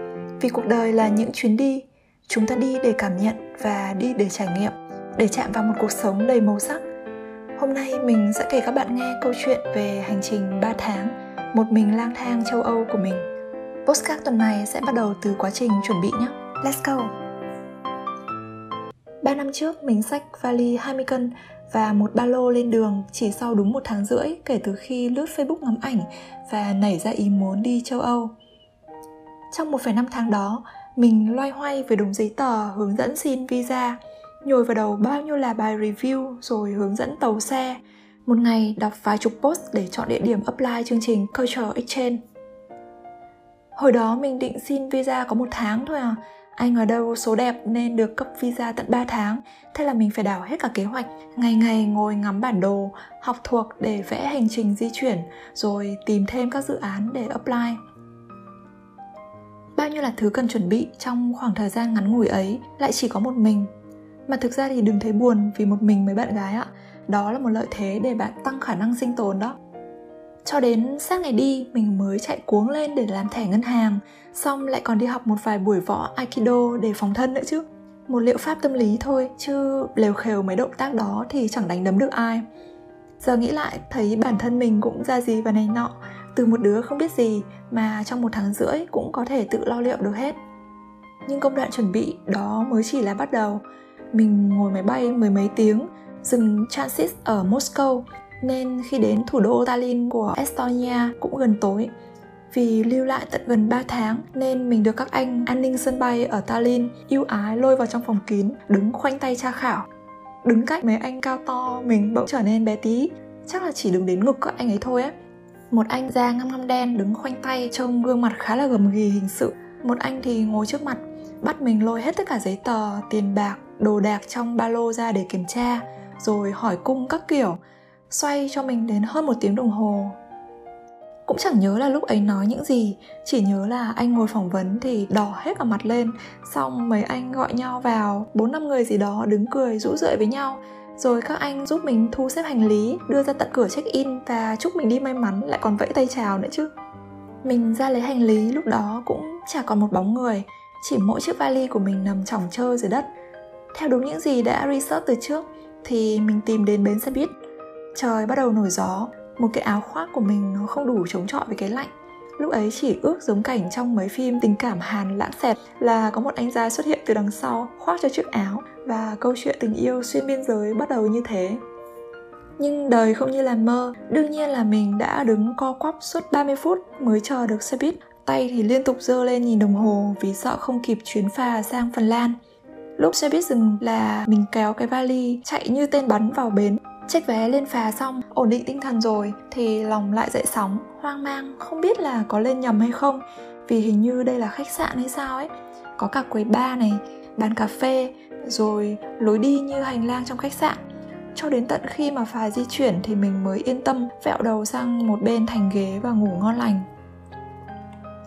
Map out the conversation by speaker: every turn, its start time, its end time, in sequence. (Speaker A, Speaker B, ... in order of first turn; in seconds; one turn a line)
Speaker A: 0.4-6.8
Speaker A: 7.6-13.2
Speaker A: 13.8-17.1
Speaker A: 19.2-28.3
Speaker A: 29.5-42.2
Speaker A: 43.8-57.8
Speaker A: 59.8-63.7
Speaker A: 64.3-69.5
Speaker A: 70.4-82.4
Speaker A: 83.2-90.4
Speaker A: 91.2-101.9
Speaker A: 102.5-109.8
Speaker A: 110.4-115.1
Speaker A: 115.7-127.6
Speaker A: 128.1-130.2
Speaker A: 131.3-146.7
Speaker A: 147.4-153.1
Speaker A: 153.7-157.3
Speaker A: 157.9-171.6
Speaker A: 172.6-182.3
Speaker A: 183.0-200.8
Speaker A: 201.3-206.8